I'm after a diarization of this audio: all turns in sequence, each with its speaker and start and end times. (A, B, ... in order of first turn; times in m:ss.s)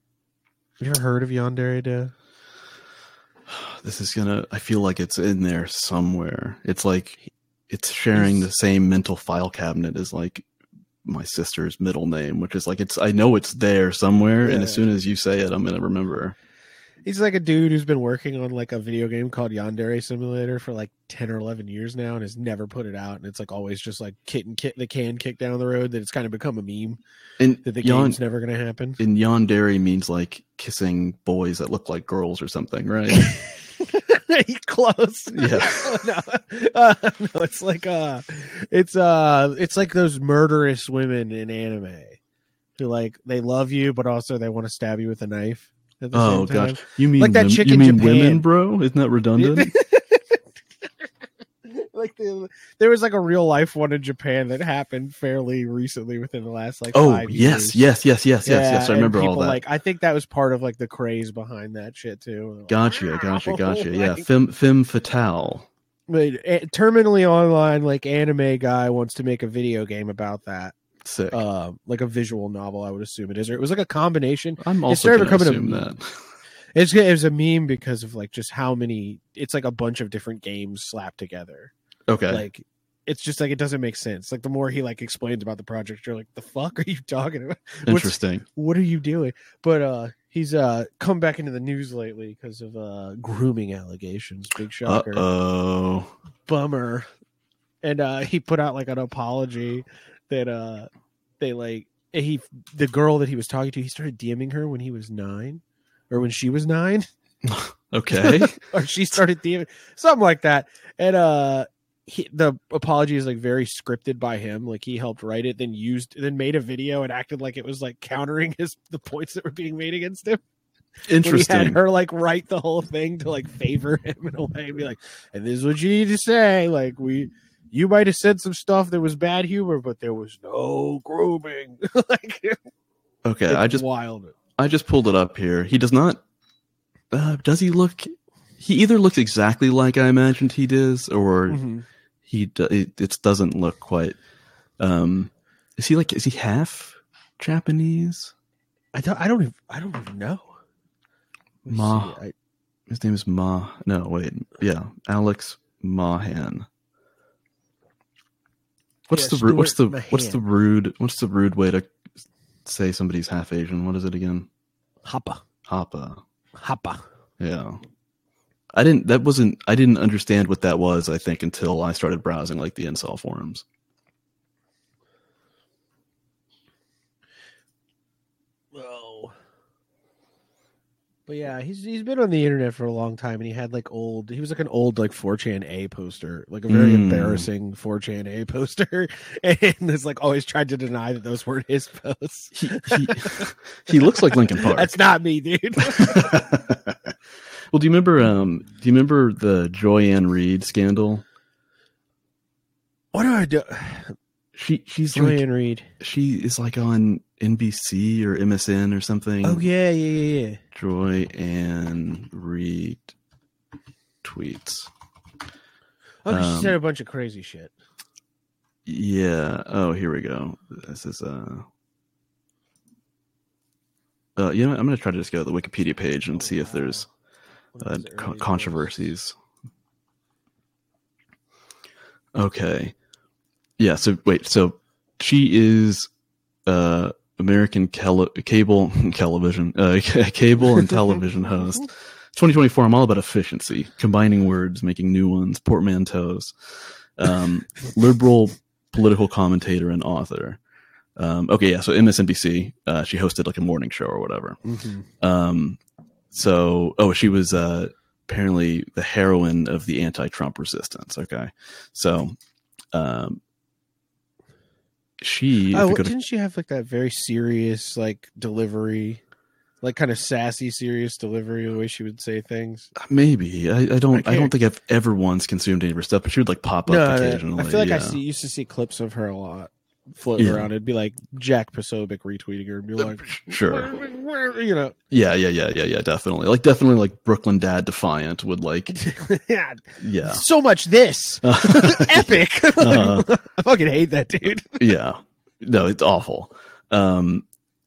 0:00.8-0:02.1 A
0:03.5-0:10.4 B
0:08.1-0:08.4 A
0:11.0-0:16.3 B
0:14.4-0:14.9 A
0:17.0-0:27.0 A
0:27.4-0:28.2 B
0:27.6-0:29.0 A
0:29.0-0:33.3 B
0:33.1-0:42.2 A
0:35.3-0:36.0 B
0:42.8-0:48.4 A
0:46.1-0:49.7 B
0:49.4-0:50.4 A
0:51.7-0:57.8 A
0:56.9-0:59.6 B
0:58.4-1:04.2 A
1:02.7-1:05.7 B
1:06.1-1:10.7 A
1:11.0-1:11.4 B
1:11.3-1:15.9 A
1:14.6-1:16.3 B
1:16.7-1:21.7 A
1:22.1-1:22.4 B
1:22.3-1:35.2 A
1:27.8-1:28.4 B
1:34.8-1:36.1 B
1:36.4-1:37.1 A
1:37.8-1:47.1 A
1:47.4-1:48.6 B
1:48.1-2:00.4 A
2:01.0-2:01.8 B
2:01.2-2:12.6 A
2:13.2-2:13.8 B
2:13.5-2:14.3 A
2:14.6-2:16.2 B
2:17.1-2:21.6 B
2:21.5-2:21.8 A
2:22.2-2:24.2 B
2:24.8-2:28.3 B
2:28.9-2:30.6 A
2:31.6-2:32.3 A
2:31.7-2:32.2 B
2:32.9-2:36.7 B
2:39.1-2:41.9 B
2:39.1-2:40.4 A
2:42.6-2:44.5 B
2:45.0-2:45.4 A
2:45.6-2:46.2 B
2:46.6-2:47.0 A
2:47.4-2:47.8 B
2:48.7-2:53.6 B
2:58.7-2:59.3 A
3:01.3-3:13.5 A
3:06.7-3:07.5 B
3:12.5-3:15.0 B
3:14.5-3:16.4 A
3:15.9-3:17.1 B
3:17.7-3:21.2 B
3:23.1-3:24.1 A
3:24.5-3:25.4 B
3:25.1-3:25.9 A
3:26.0-3:29.6 B
3:29.4-3:30.6 A
3:30.7-3:33.1 B
3:34.2-3:34.9 B
3:36.2-3:37.7 A
3:36.3-3:36.8 B
3:38.8-3:41.6 B
3:44.4-3:47.0 B
3:46.4-3:47.1 A
3:47.7-3:49.1 A
3:47.8-3:49.4 B
3:52.3-3:52.9 B
3:53.8-3:56.1 B
3:56.6-4:10.6 B
4:11.2-4:14.6 B
4:14.6-4:15.1 A
4:15.2-4:15.8 B
4:16.3-4:22.4 B
4:22.9-4:23.4 B
4:25.2-4:26.1 B
4:25.7-4:29.2 A
4:29.8-4:32.9 A
4:33.0-4:38.2 B
4:34.1-4:34.5 A
4:36.9-4:44.9 A
4:40.4-4:40.7 B
4:43.0-4:43.9 B
4:45.1-4:49.0 B
4:48.9-4:54.8 A
4:50.0-4:50.4 B
4:51.4-4:53.3 B
4:54.8-4:57.4 B